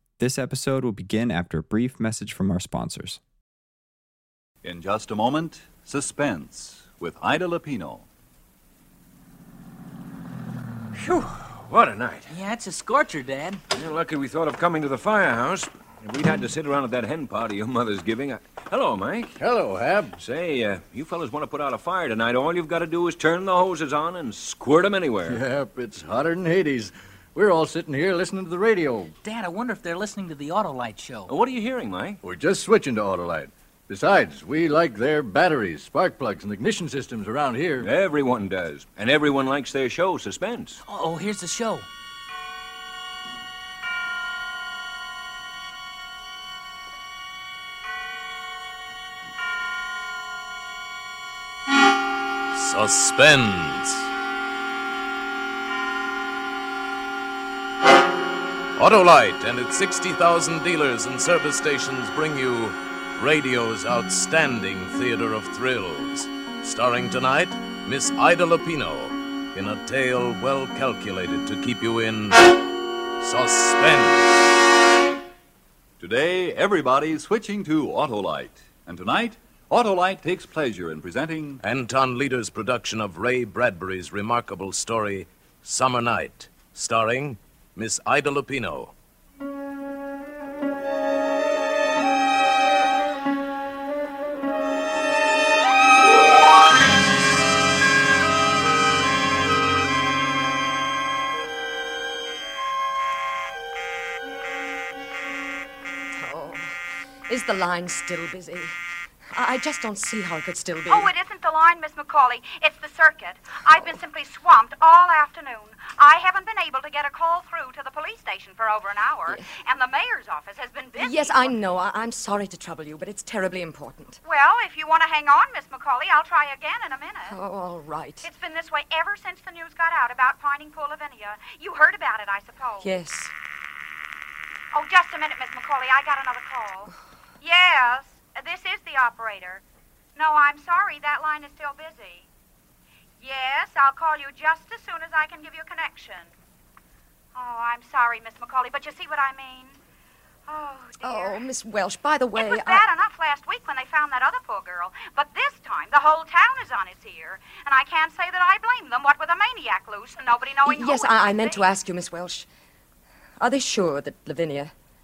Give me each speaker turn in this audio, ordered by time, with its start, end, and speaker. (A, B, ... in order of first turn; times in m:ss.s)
0:00.2-0:03.2 A
0:04.6-0:08.1 B
0:11.0-0:12.3 C
0:12.3-0:13.6 D
0:13.7-0:19.3 C
0:19.4-0:20.2 E
0:20.2-0:25.4 C
0:25.3-0:29.1 E
0:29.2-0:31.3 D
0:31.3-0:32.2 C
0:32.2-0:37.9 E
0:37.8-0:40.8 C
0:40.9-0:41.9 D
0:52.5-0:54.1 F
0:58.8-1:12.6 F
1:13.2-1:14.4 F
1:16.0-1:21.6 B
1:21.6-1:28.9 F
1:46.2-1:48.8 G
1:49.3-1:51.1 G
1:50.9-2:01.5 H
2:01.0-2:04.2 G
2:04.2-2:07.4 H
2:07.3-2:08.3 G
2:08.2-2:12.9 H
2:12.8-2:13.3 G
2:14.7-2:19.6 H
2:20.2-2:22.3 H
2:23.2-2:26.3 H
2:27.4-2:29.8 H
2:30.5-2:31.4 H
2:31.0-2:32.8 G
2:32.4-2:41.7 H
2:40.6-2:42.5 G
2:43.4-2:44.7 G